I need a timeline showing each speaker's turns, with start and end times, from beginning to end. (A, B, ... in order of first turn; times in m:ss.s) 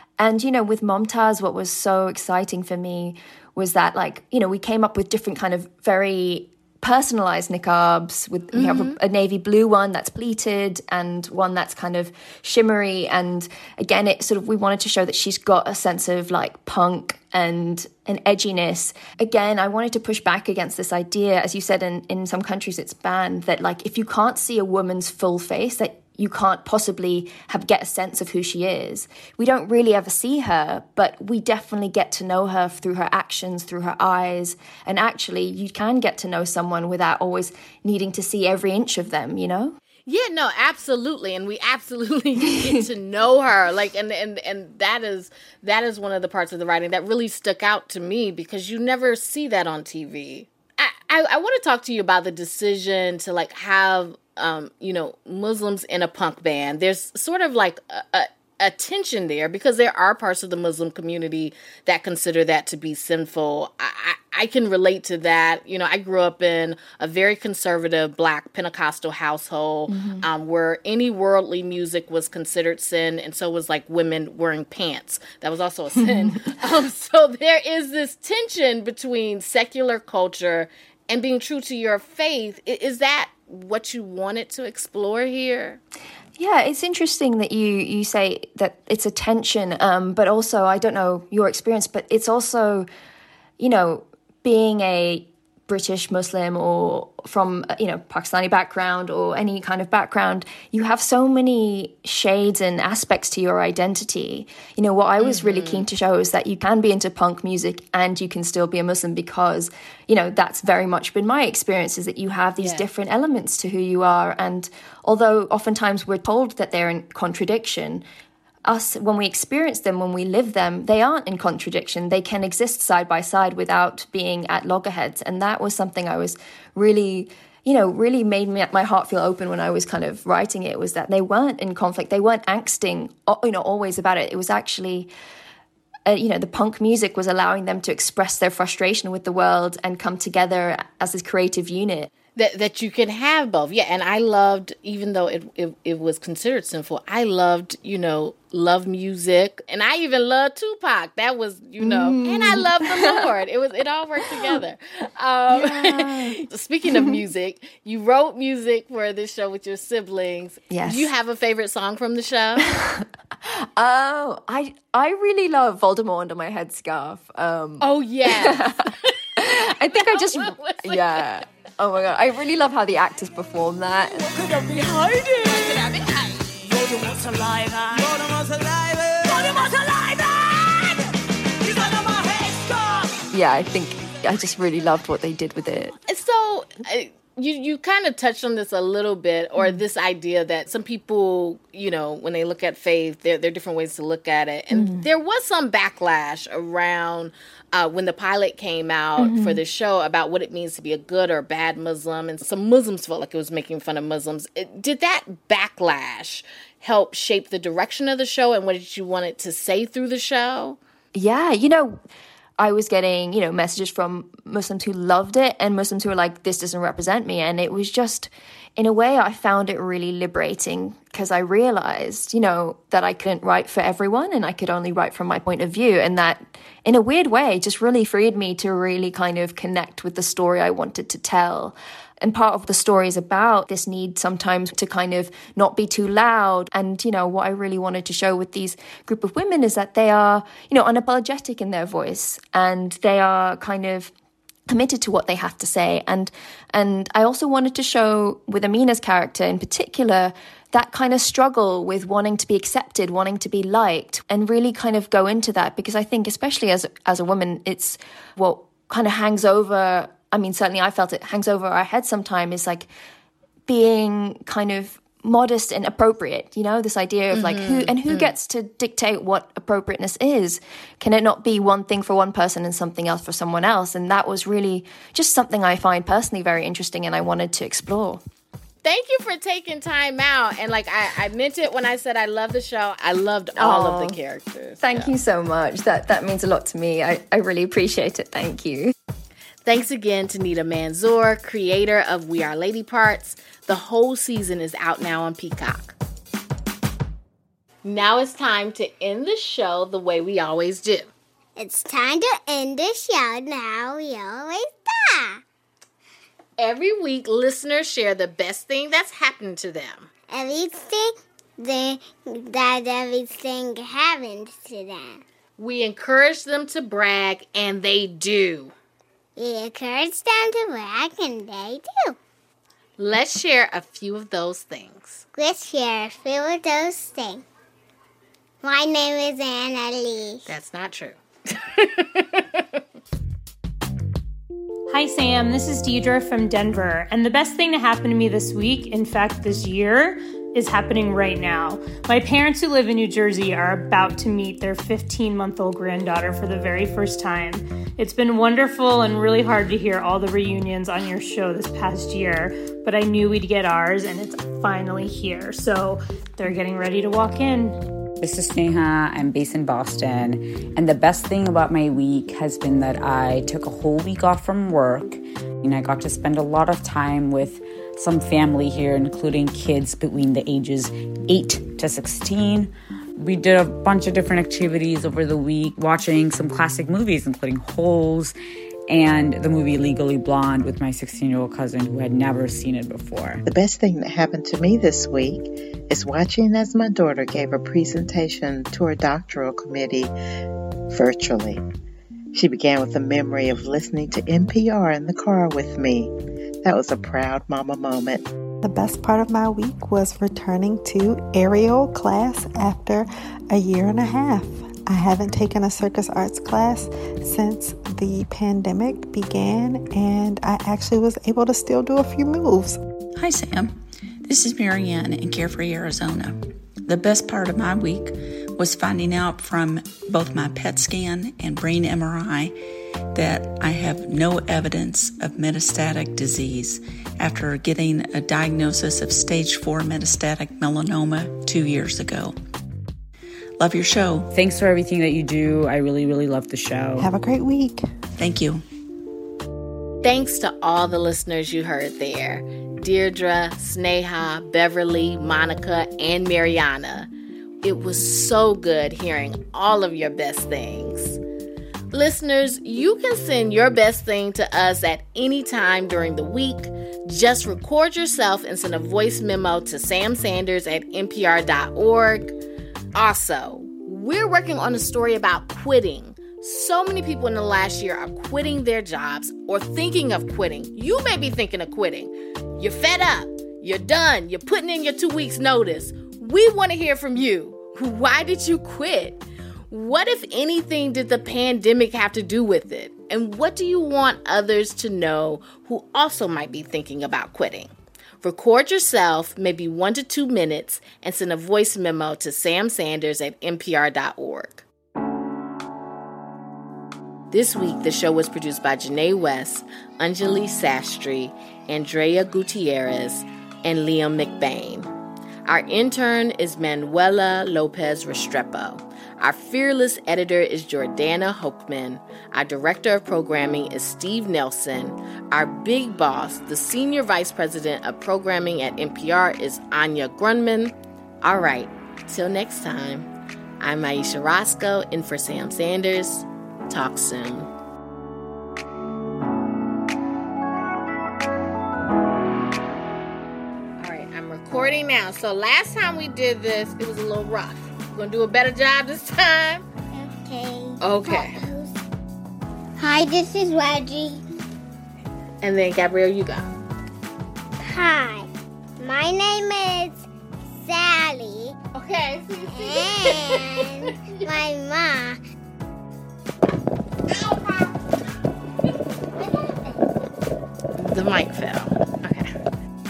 0:00.2-0:39.8 A
0:08.5-0:09.0 B
0:40.1-1:25.8 B
0:42.5-0:42.8 A
1:09.9-1:10.3 A
1:16.1-1:16.3 A
1:26.4-1:32.9 A
1:33.6-1:58.0 A
1:45.2-1:45.9 B
1:52.6-1:52.9 B
1:58.7-2:15.1 A
2:16.1-2:22.1 A
2:22.4-2:42.8 B
2:31.8-2:33.4 A
2:34.2-2:34.6 A
2:35.5-2:36.4 A
2:36.9-2:37.1 A
2:40.7-2:41.1 A
2:42.6-2:43.0 A
2:43.8-2:54.4 A
2:47.8-2:51.3 B
3:03.3-3:06.0 A
3:06.1-3:30.8 B
3:09.6-3:09.8 A
3:14.7-3:15.1 A
3:19.2-3:19.6 A
3:31.1-3:32.0 A
3:32.6-4:04.1 A
4:04.7-4:22.9 A
4:23.7-4:38.2 A
4:27.3-4:28.3 B
4:38.8-4:45.1 B
4:43.6-4:44.2 A
4:44.8-4:48.9 A
4:49.6-4:56.0 B
4:57.8-5:01.1 B
5:01.6-5:05.4 C
5:06.6-5:10.1 B
5:10.3-5:15.2 C
5:15.6-5:18.7 B
5:19.4-5:22.2 C
5:23.0-5:25.2 B
5:25.4-5:27.4 C
5:28.6-5:30.4 C
5:30.5-5:32.6 B
5:34.9-5:57.8 D
5:58.2-6:18.3 E
6:18.9-6:23.4 E
6:23.5-6:30.1 F
6:30.9-6:31.6 F
6:32.3-6:36.1 F
6:36.6-6:38.3 F
6:38.6-6:52.8 G
6:53.2-7:02.6 H
7:03.1-7:12.4 H
7:13.6-7:14.3 H
7:14.3-7:17.1 E
7:17.0-7:17.8 G
7:18.2-7:18.6 H
7:20.0-7:27.1 B
7:27.6-7:31.2 B
7:31.9-7:42.3 B
7:43.0-8:14.6 B
8:17.3-8:24.9 B
8:25.5-8:43.1 B
8:43.6-8:47.5 B
8:53.8-8:59.6 B
8:59.9-9:01.8 C
9:00.8-9:01.4 B
9:02.8-9:04.2 C
9:05.4-9:06.5 B
9:07.6-9:10.0 C
9:10.6-9:11.6 C
9:11.7-9:13.9 B
9:12.5-9:15.2 C
9:17.2-9:17.7 C
9:19.2-9:19.9 C
9:20.8-9:22.3 B